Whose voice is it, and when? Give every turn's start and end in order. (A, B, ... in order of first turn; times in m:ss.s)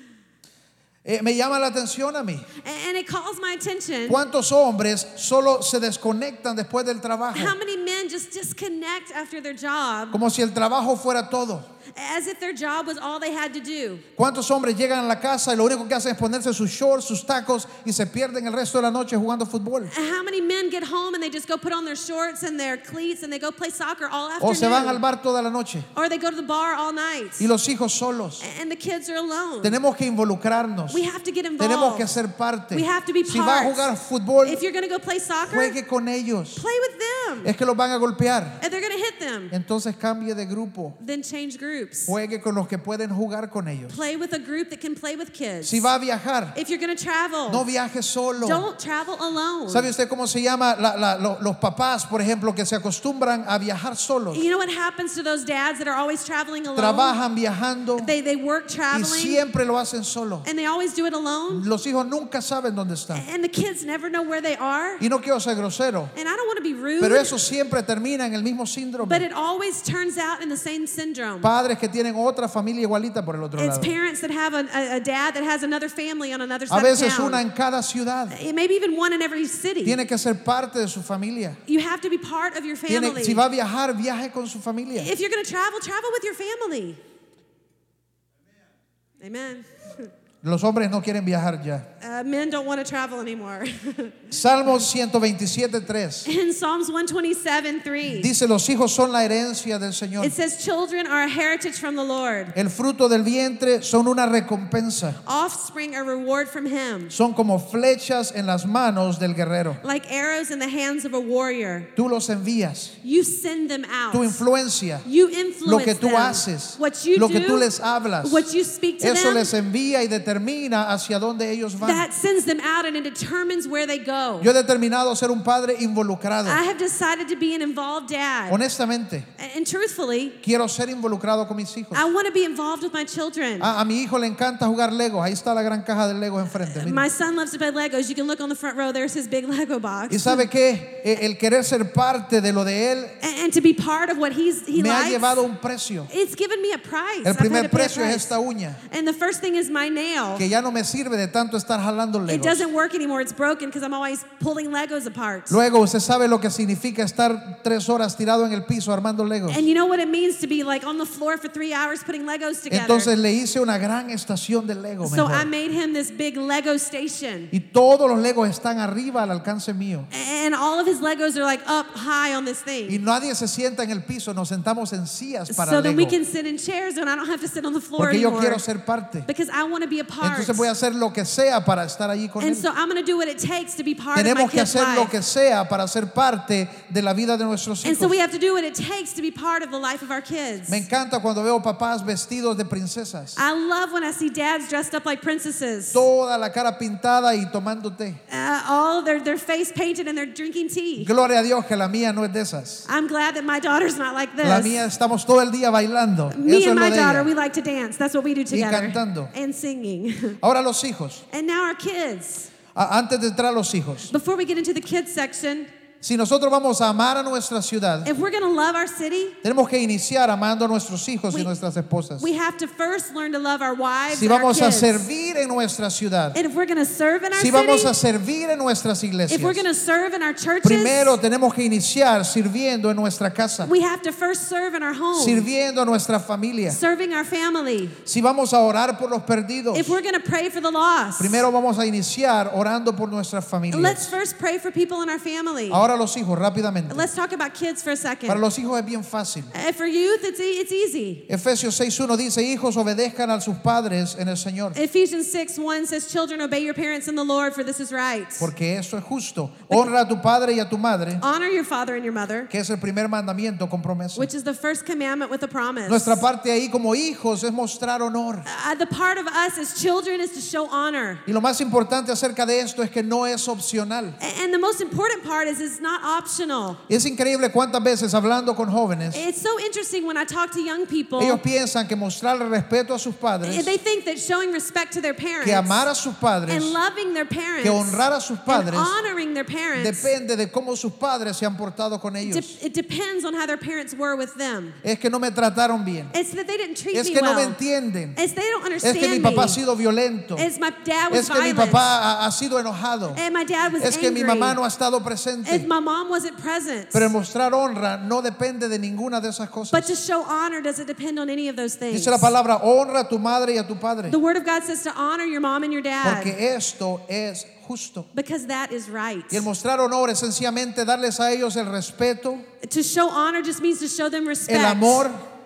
0:01.0-0:02.5 A
0:02.6-0:04.2 B
0:04.1-0:07.6 A
0:07.3-0:10.2 B
0:10.1-0:11.7 A
0:11.9-0:14.0 B
0:14.2-0:19.9 A
0:19.9-0:25.0 B
0:24.4-0:25.9 A
0:25.9-0:27.5 B
0:27.4-0:28.4 A
0:28.4-0:29.8 B
0:29.6-0:31.0 A
0:30.9-0:32.2 B
0:31.6-0:34.6 A
0:32.7-0:33.9 B
0:34.4-0:35.8 B
0:35.5-0:36.6 A
0:36.6-0:37.5 B
0:37.4-0:38.6 A
0:38.6-0:39.5 B
0:39.5-0:41.0 A
0:41.0-0:42.1 B
0:42.1-0:44.0 A
0:43.9-0:45.9 B
0:45.6-0:46.6 A
0:46.6-0:47.7 B
0:47.5-0:48.6 A
0:48.4-0:49.9 B
0:49.7-0:54.5 A
0:54.3-0:57.2 B
0:56.8-0:58.1 A
0:58.0-0:59.4 B
0:58.9-1:00.5 A
1:00.4-1:01.7 B
1:01.5-1:03.2 A
1:03.1-1:05.0 B
1:05.0-1:06.1 A
1:06.1-1:07.3 B
1:07.0-1:09.2 A
1:09.0-1:11.5 B
1:11.4-1:14.0 A
1:13.6-1:17.4 B
1:16.7-1:18.4 A
1:18.3-1:20.0 B
1:19.8-1:21.6 A
1:21.7-1:23.4 B
1:22.9-1:25.1 A
1:25.0-1:27.0 B
1:29.2-1:30.1 B
1:30.4-1:31.9 A
1:32.0-1:34.3 B
1:34.3-1:36.3 A
1:36.3-1:38.3 B
1:38.1-1:40.3 A
1:40.2-1:42.5 B
1:42.5-1:45.2 A
1:45.2-1:47.1 B
1:47.1-1:49.8 A
1:49.8-1:51.9 B
1:52.0-1:53.0 A
1:53.0-1:54.4 B
1:54.1-1:55.1 A
1:55.0-1:57.7 B
1:55.6-1:58.5 A
1:58.2-1:59.5 B
1:59.0-2:02.0 A
2:01.8-2:04.5 B
2:04.4-2:06.6 A
2:06.4-2:08.6 B
2:08.5-2:09.3 A
2:09.4-2:10.4 B
2:10.4-2:12.1 A
2:11.9-2:13.7 B
2:13.6-2:17.1 A
2:16.6-2:20.5 B
2:20.1-2:23.2 A
2:23.2-2:25.4 B
2:24.7-2:26.1 A
2:26.1-2:30.5 B
2:27.2-2:28.8 A
2:30.4-2:32.6 A
2:32.3-2:35.6 B
2:35.5-2:39.6 A
2:39.5-2:43.1 B
2:42.7-2:45.5 A
2:45.0-2:47.5 B
2:47.5-2:50.1 A
2:50.1-2:53.0 B
2:52.9-2:56.2 A
2:55.5-2:58.6 B
2:58.0-2:59.3 A
2:59.3-3:00.7 B
3:00.2-3:02.7 A
3:02.4-3:05.1 B
3:04.2-3:08.2 A
3:07.8-3:10.9 B
3:10.7-3:13.4 A
3:13.4-3:16.1 B
3:15.9-3:18.2 A
3:18.3-3:21.1 B
3:21.0-3:22.9 A
3:22.9-3:24.9 B
3:24.4-3:27.3 A
3:26.3-3:30.4 B
3:28.5-3:29.3 A
3:30.4-3:31.2 A
3:31.3-3:32.5 B
3:32.7-3:34.1 A
3:34.1-3:35.7 B
3:36.0-3:38.1 A
3:38.0-3:39.4 B
3:39.4-3:42.3 A
3:42.2-3:45.0 B
3:44.1-3:46.4 A
3:46.3-3:48.0 B
3:47.4-3:49.6 A
3:49.3-3:51.2 B
3:50.6-3:53.7 A
3:53.6-3:55.5 B
3:55.2-3:56.8 A
3:56.7-3:58.0 B
3:58.1-4:00.0 A
3:59.7-4:01.5 B
4:01.2-4:04.1 A
4:03.7-4:05.8 B
4:05.7-4:07.1 A
4:06.9-4:08.4 B
4:08.3-4:09.5 A
4:09.5-4:11.2 B
4:11.3-4:14.8 A
4:14.8-4:18.5 B
4:18.4-4:21.2 A
4:21.2-4:22.5 B
4:22.5-4:24.3 A
4:24.2-4:26.2 B
4:25.9-4:28.5 A
4:28.5-4:31.2 B
4:31.3-4:34.2 A
4:34.2-4:36.8 B
4:36.9-4:39.2 A
4:39.1-4:41.4 B
4:41.2-4:43.8 A
4:43.4-4:45.9 B
4:45.4-4:46.8 A
4:46.5-4:50.1 B
4:47.6-4:49.0 A
4:49.8-4:52.6 A
4:52.2-4:54.8 B
4:54.8-4:56.1 A
4:56.1-4:57.6 B
4:56.9-4:58.2 A
4:58.2-4:59.6 B
4:58.8-5:00.5 A
5:00.4-5:01.9 B
5:01.1-5:03.2 A
5:03.1-5:04.6 B
5:03.8-5:05.7 A
5:05.4-5:07.1 B
5:06.9-5:09.9 A
5:09.7-5:12.3 B
5:11.9-5:14.2 A
5:14.1-5:16.4 B
5:16.0-5:18.1 A
5:18.1-5:19.5 B
5:19.3-5:22.5 A
5:22.6-5:25.1 B
5:24.5-5:25.2 A